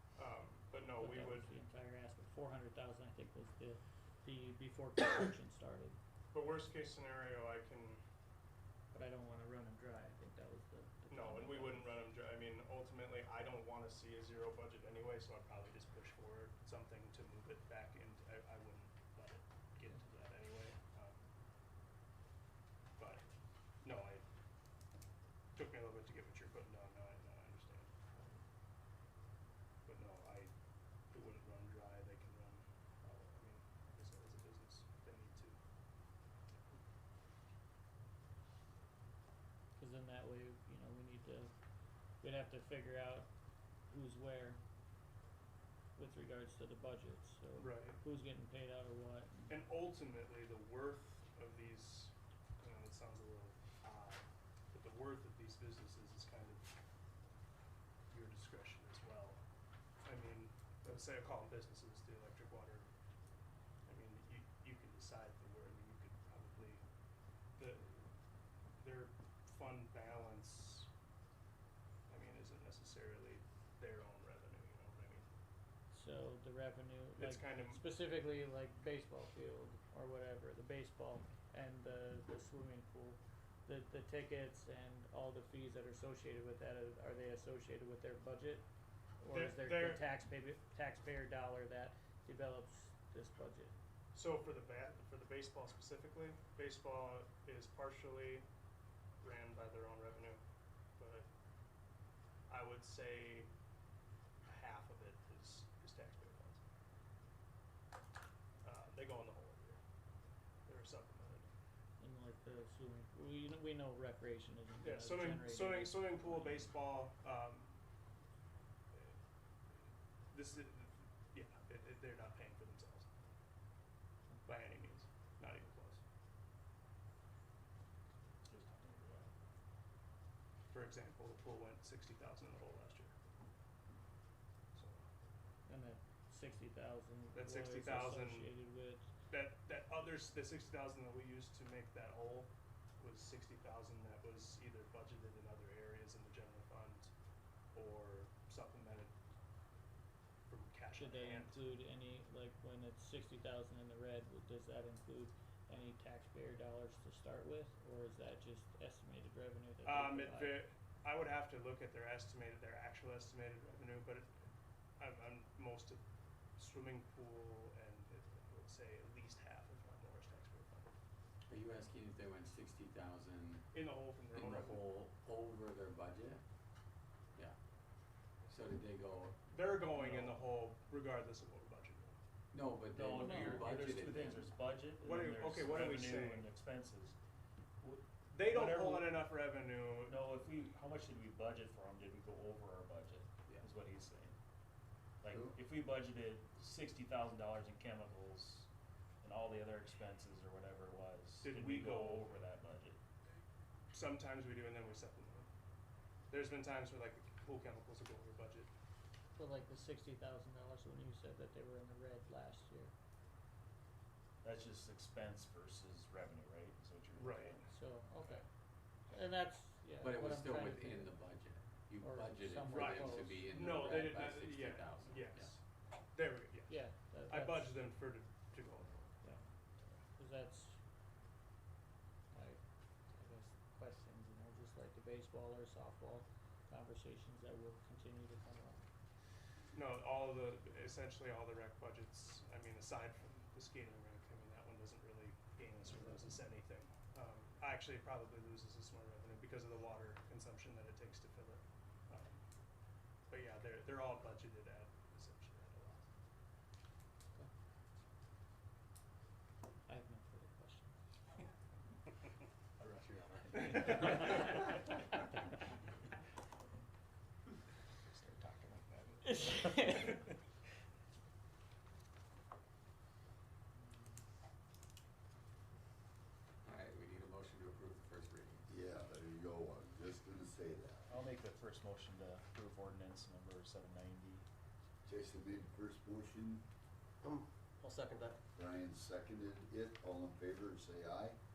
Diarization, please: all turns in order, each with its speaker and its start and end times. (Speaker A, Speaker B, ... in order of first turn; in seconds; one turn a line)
Speaker A: 0.2-1.5
Speaker B: 1.0-6.0
Speaker A: 6.3-8.0
Speaker B: 8.9-11.8
Speaker A: 11.1-21.2
Speaker A: 23.0-23.2
Speaker A: 23.8-24.2
Speaker A: 25.6-28.2
Speaker A: 29.9-30.5
Speaker A: 31.1-35.6
Speaker B: 39.8-41.5
Speaker B: 42.2-43.3
Speaker B: 43.9-44.6
Speaker B: 46.0-49.6
Speaker A: 47.6-48.0
Speaker A: 49.5-56.6
Speaker A: 58.1-59.4
Speaker A: 60.0-62.9
Speaker A: 63.9-66.8
Speaker A: 67.6-67.9
Speaker A: 68.8-70.9
Speaker A: 72.1-75.2
Speaker B: 75.9-88.6
Speaker A: 77.2-77.8
Speaker B: 89.2-93.8
Speaker A: 89.3-90.1
Speaker A: 94.1-98.5
Speaker A: 99.2-100.4
Speaker A: 101.0-101.3
Speaker A: 102.5-103.5
Speaker A: 104.5-106.6
Speaker A: 108.6-109.8
Speaker A: 110.7-111.5
Speaker B: 112.0-116.6
Speaker A: 114.8-117.7
Speaker A: 120.3-123.1
Speaker A: 124.4-126.0
Speaker C: 128.5-129.3
Speaker A: 130.7-133.2
Speaker A: 134.8-135.0
Speaker B: 135.7-139.1
Speaker A: 137.3-138.6
Speaker A: 139.3-147.1
Speaker A: 147.7-149.1
Speaker A: 150.5-151.7
Speaker B: 151.0-160.6
Speaker A: 159.8-164.3
Speaker A: 165.0-166.0
Speaker A: 166.6-170.9
Speaker D: 171.5-173.8
Speaker A: 173.7-174.9
Speaker D: 174.3-176.4
Speaker D: 178.5-179.4
Speaker A: 179.5-182.2
Speaker D: 182.5-184.5
Speaker C: 182.9-187.2
Speaker A: 185.0-186.5
Speaker C: 187.8-189.1
Speaker A: 188.3-190.2
Speaker C: 190.1-194.3
Speaker C: 195.2-198.7
Speaker C: 199.2-203.0
Speaker A: 201.4-202.3
Speaker A: 203.9-205.5
Speaker A: 206.3-208.7
Speaker B: 209.3-212.9
Speaker C: 214.4-217.7
Speaker A: 217.2-217.7
Speaker B: 217.7-218.4
Speaker B: 219.1-221.2
Speaker D: 220.0-225.5
Speaker B: 222.0-223.2
Speaker A: 222.7-225.6
Speaker A: 226.1-229.3
Speaker B: 226.7-227.7
Speaker B: 230.2-230.8
Speaker B: 232.3-238.8
Speaker A: 239.7-252.4
Speaker A: 253.3-256.1
Speaker B: 259.9-260.9
Speaker A: 263.6-264.5
Speaker B: 264.1-264.4
Speaker A: 268.1-270.3
Speaker B: 269.2-270.3
Speaker D: 276.6-278.7
Speaker E: 278.7-281.1
Speaker C: 281.1-284.4
Speaker E: 285.1-286.6
Speaker E: 288.6-291.4